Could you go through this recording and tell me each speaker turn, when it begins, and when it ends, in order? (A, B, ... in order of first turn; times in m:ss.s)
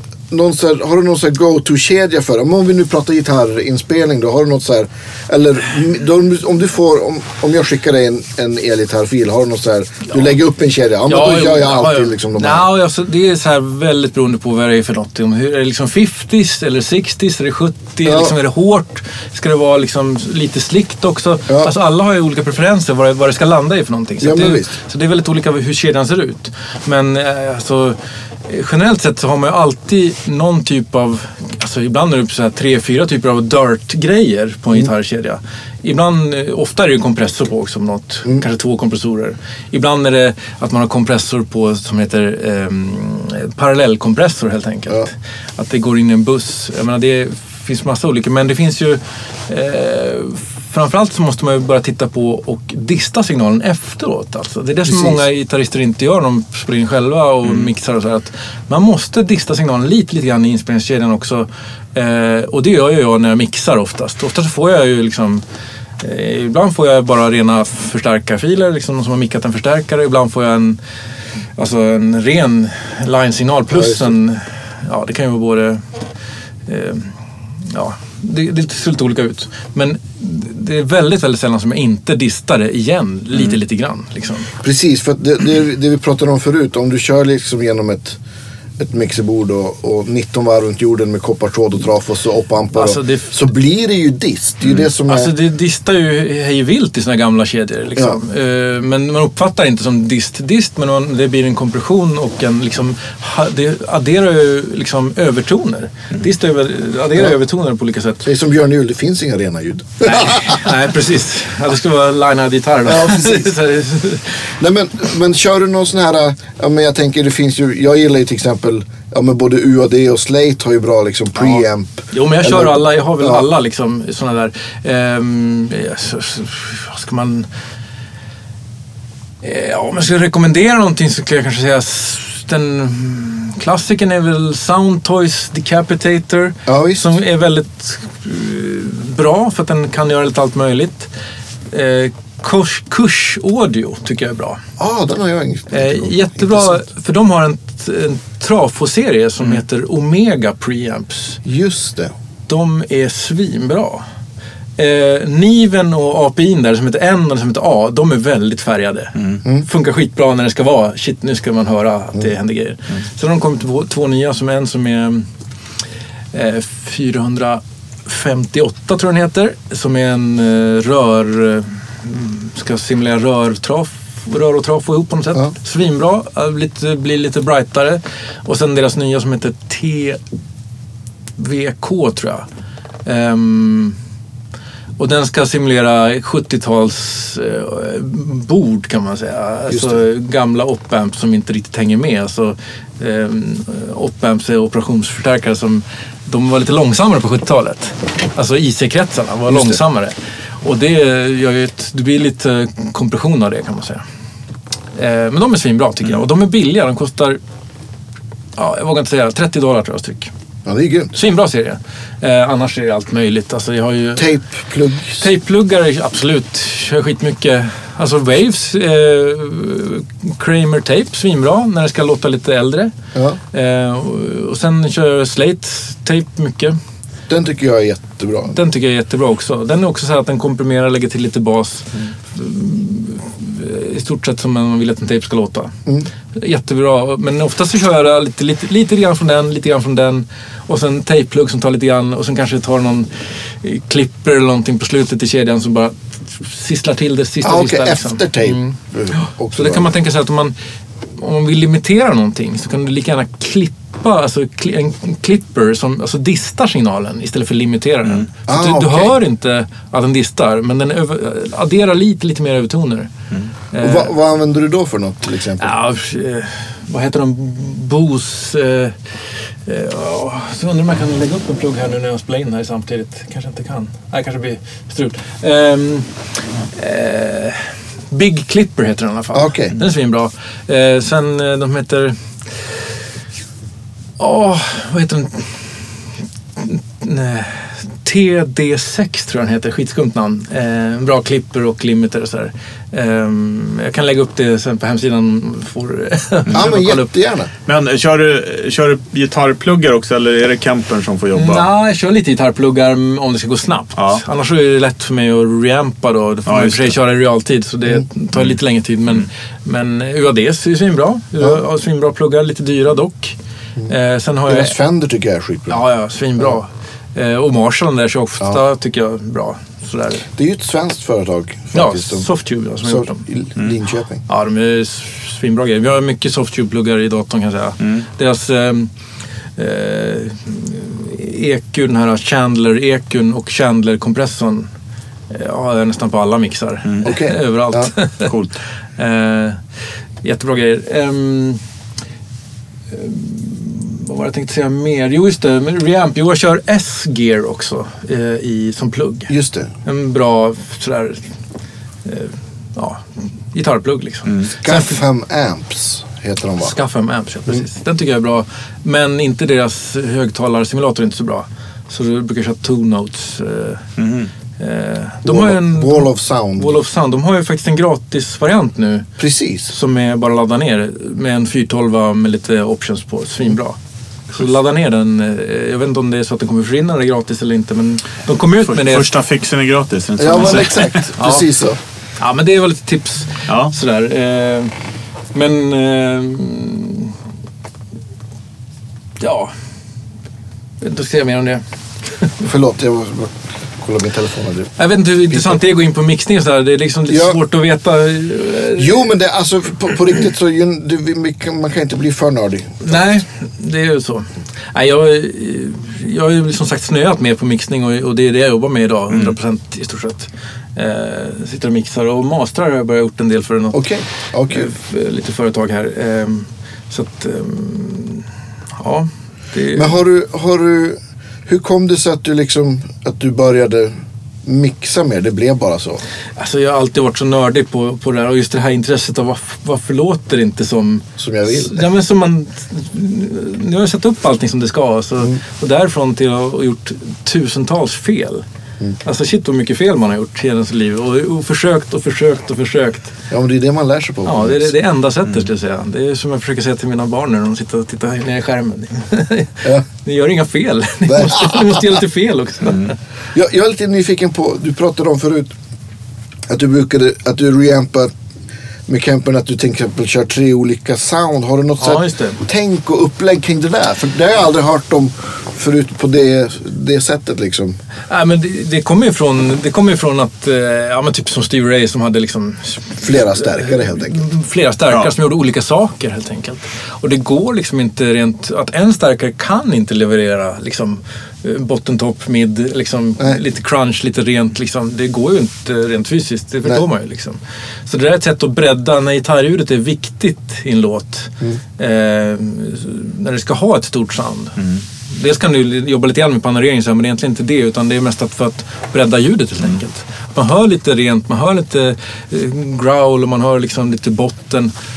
0:00.3-0:12.7 A
0:11.1-0:28.0 B
0:18.0-0:18.3 A
0:24.2-0:24.7 A
0:28.5-1:05.4 B
0:54.9-0:55.2 A
1:06.0-1:10.8 B
1:11.6-1:15.8 B
1:13.7-1:14.1 A
1:16.7-1:17.1 B
1:17.6-1:24.5 B
1:24.6-1:28.2 A
1:28.8-1:35.3 A
1:32.7-1:33.3 B
1:35.0-1:48.2 B
1:48.2-1:50.7 A
1:50.0-1:54.3 B
1:52.9-1:53.5 A
1:54.6-2:03.4 A
2:02.1-2:07.5 B
2:09.4-2:21.1 B
2:16.7-2:17.0 A
2:21.7-2:24.6 B
2:24.8-2:26.8 A
2:25.7-2:31.4 B
2:31.4-2:32.1 A
2:32.5-2:34.0 B
2:34.8-2:45.3 B
2:46.3-3:00.2 B
3:01.4-3:02.4 B
3:03.0-3:04.0 B
3:05.0-3:24.0 B
3:09.7-3:10.0 A
3:19.5-3:19.8 A
3:25.0-3:27.4 B
3:28.6-3:30.3 B
3:30.6-3:31.1 A
3:31.1-3:34.3 B
3:34.2-3:35.2 A
3:35.2-3:42.9 B
3:43.5-3:46.8 B
3:47.3-3:48.5 A
3:48.5-3:55.7 B
3:56.3-4:03.1 B
4:03.6-4:10.5 B
4:07.4-4:09.9 A
4:11.2-4:23.1 B
4:18.5-4:19.1 A
4:23.7-4:24.1 B
4:23.8-4:25.7 A
4:25.6-4:29.0 B
4:29.6-4:36.1 B
4:36.7-4:42.2 B
4:39.3-4:39.8 A
4:44.2-4:45.5 B
4:46.6-4:57.1 B
4:56.5-4:57.5 A
4:57.6-5:01.7 C
5:01.3-5:13.3 B
5:06.5-5:06.9 C
5:13.9-5:14.7 B
5:14.5-5:15.8 A
5:15.7-5:20.2 B
5:20.3-5:22.3 A
5:21.7-5:23.2 B
5:22.8-5:24.2 A
5:24.3-5:28.9 B
5:29.6-5:34.7 B
5:35.3-5:38.3 B
5:36.8-5:37.1 C
5:37.0-5:37.9 A
5:38.2-5:38.5 C
5:39.0-5:39.6 B
5:40.2-5:41.6 B
5:42.9-5:49.3 B
5:49.3-5:49.7 A
5:49.8-5:51.2 B
5:52.0-5:55.0 B
5:54.6-5:56.7 A
5:56.6-6:03.8 B
6:04.0-6:04.3 C
6:04.6-6:09.1 B
6:05.2-6:06.7 A
6:09.2-6:09.7 A
6:09.7-6:13.8 B
6:14.3-6:19.1 B
6:18.7-6:21.0 C
6:20.2-6:21.8 A
6:21.2-6:21.5 B
6:22.2-6:24.7 B
6:23.5-6:23.7 C
6:25.3-6:27.2 B
6:29.2-6:29.5 B
6:30.8-6:31.6 B
6:32.2-6:32.4 B
6:32.4-6:34.7 A
6:34.8-6:39.0 B
6:37.1-6:37.4 A
6:38.8-6:42.8 A
6:42.8-6:53.8 B
6:53.7-6:54.7 A
6:54.5-6:58.2 B
6:58.8-7:00.0 B
6:59.7-7:03.9 A
7:04.4-7:06.0 A
7:06.4-7:18.4 B
7:11.2-7:11.8 A
7:19.0-7:23.1 B
7:23.3-7:24.7 A
7:24.2-7:32.9 B
7:31.1-7:31.8 A
7:33.3-7:35.5 A
7:36.5-7:38.1 A
7:38.9-7:47.8 A
7:41.8-7:42.4 B
7:48.1-8:24.7 B
7:53.0-7:54.2 A